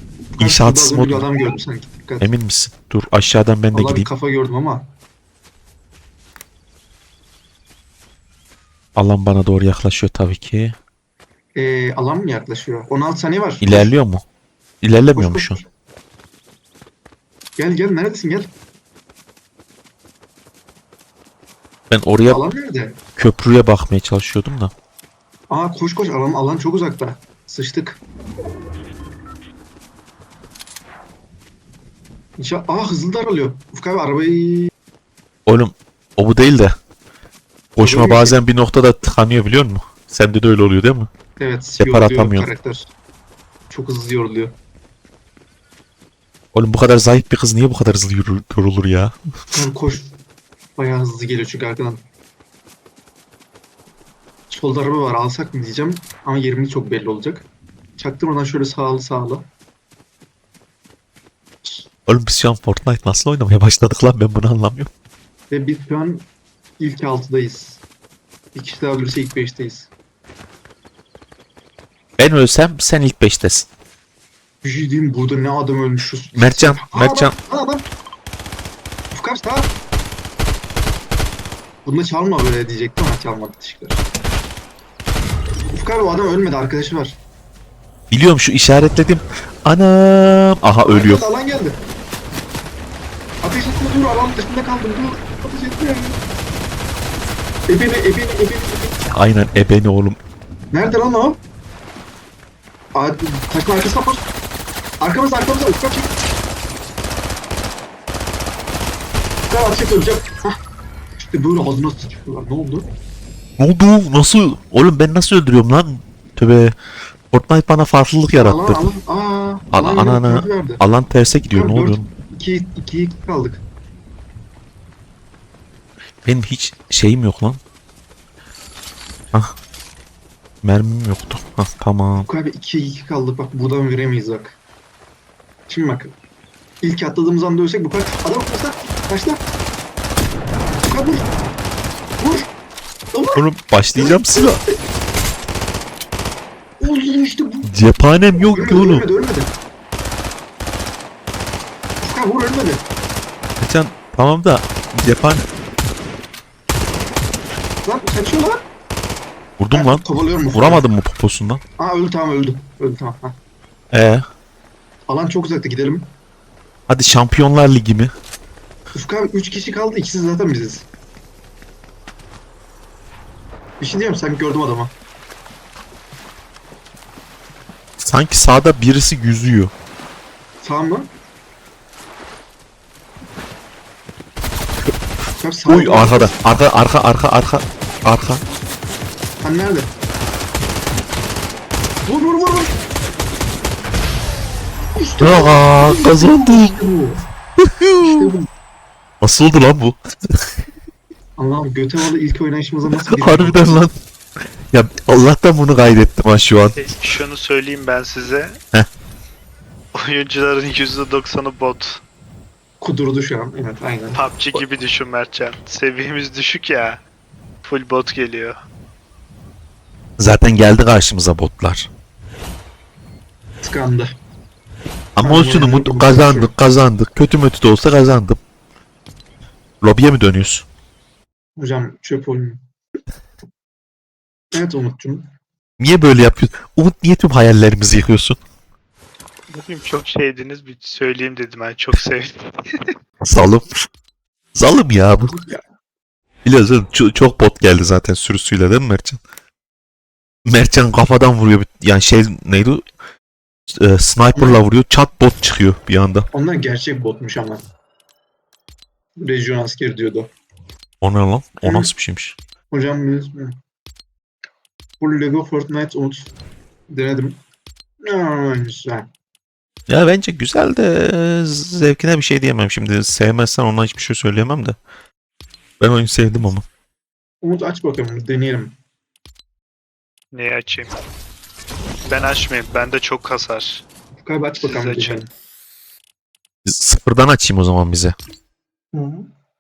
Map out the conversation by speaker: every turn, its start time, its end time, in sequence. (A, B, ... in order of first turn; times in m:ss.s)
0:00.4-0:02.3 A
0:00.4-0:01.3 B
0:02.2-0:04.1 B
0:03.7-0:04.9 A
0:09.0-0:10.8 B
0:11.6-0:13.9 A
0:13.6-0:14.2 B
0:14.8-0:15.6 B
0:15.1-0:15.7 A
0:17.6-0:18.5 A
0:21.9-0:22.4 B
0:22.3-0:23.0 A
0:23.2-0:24.7 B
0:25.5-0:28.0 A
0:32.4-0:34.7 A
0:35.5-0:36.8 B
0:37.8-0:41.1 B
0:37.8-0:38.4 A
0:41.4-0:42.9 A
0:41.8-0:42.5 B
0:43.7-0:44.6 A
0:46.5-0:49.2 B
0:49.5-0:50.1 A
0:50.8-0:52.0 A
0:54.5-0:57.5 A
0:58.0-0:59.5 A
1:02.1-1:04.9 B
1:05.5-1:06.3 A
1:06.8-1:07.8 A
1:08.5-1:09.9 A
1:12.2-1:13.7 B
1:14.6-1:17.9 A
1:16.4-1:17.3 B
1:19.1-1:19.7 A
1:21.8-1:24.0 A
1:25.7-1:27.2 A
1:28.1-1:31.2 B
1:30.9-1:31.8 A
1:33.4-1:36.2 A
1:37.7-1:39.0 A
1:39.1-1:40.2 B
1:40.7-1:41.4 A
1:43.0-1:44.3 A
1:45.0-1:46.1 A
1:49.5-1:50.6 A
1:51.2-1:52.9 A
1:53.6-1:56.8 B
1:57.3-1:58.9 B
1:58.3-2:00.8 A
1:59.7-2:02.1 B
2:01.5-2:03.6 A
2:06.2-2:07.6 B
2:10.6-2:12.3 B
2:12.3-2:14.6 A
2:15.7-2:16.1 A
2:16.8-2:19.4 A
2:20.9-2:21.3 A
2:22.2-2:22.5 A
2:23.1-2:23.4 A
2:23.3-2:24.6 B
2:24.0-2:24.7 A
2:26.8-2:27.7 A
2:27.7-2:29.1 B
2:28.4-2:29.5 A
2:32.0-2:32.8 A
2:33.6-2:35.4 B
2:37.8-2:38.6 A
2:39.6-2:41.6 B
2:39.7-2:40.8 A
2:41.8-2:43.4 A
2:43.9-2:44.2 B
2:45.1-2:46.1 A
2:46.9-2:48.1 B
2:48.9-2:50.9 A
2:53.8-2:54.9 A
2:58.0-2:59.7 B
3:00.6-3:01.1 A
3:05.4-3:06.3 A
3:05.7-3:08.4 B
3:09.4-3:09.9 A
3:12.1-3:12.8 A
3:15.0-3:17.2 A
3:15.2-3:16.8 B
3:17.6-3:18.3 B
3:18.0-3:18.5 A
3:19.2-3:20.5 B
3:21.4-3:23.8 A
3:23.1-3:23.9 B
3:24.7-3:26.8 B
3:26.8-3:28.6 C
3:30.0-3:32.0 C
3:32.8-3:34.2 A
3:34.2-3:37.0 C
3:37.6-3:38.6 C
3:40.2-3:41.9 B
3:43.6-3:44.1 A
3:45.2-3:48.4 B
3:45.2-3:46.5 A
3:49.8-3:50.7 B
3:51.6-3:52.6 A
3:54.5-3:55.3 A
3:55.8-3:58.4 B
3:59.5-4:02.9 C
4:03.2-4:03.7 B
4:04.5-4:05.4 B
4:05.3-4:05.6 A
4:06.4-4:09.2 B
4:10.5-4:12.8 B
4:13.7-4:16.3 B
4:16.3-4:17.6 A
4:19.2-4:20.3 A
4:21.0-4:22.4 B
4:21.6-4:21.9 A
4:22.7-4:23.6 A
4:25.0-4:26.3 A
4:26.9-4:27.4 A
4:28.0-4:29.1 A
4:29.9-4:34.8 B
4:35.8-4:36.6 B
4:37.4-4:38.8 A
4:40.3-4:40.9 C
4:42.1-4:43.8 C
4:44.2-4:45.3 A
4:44.6-4:45.2 C
4:46.6-4:48.2 B
4:48.9-4:49.3 A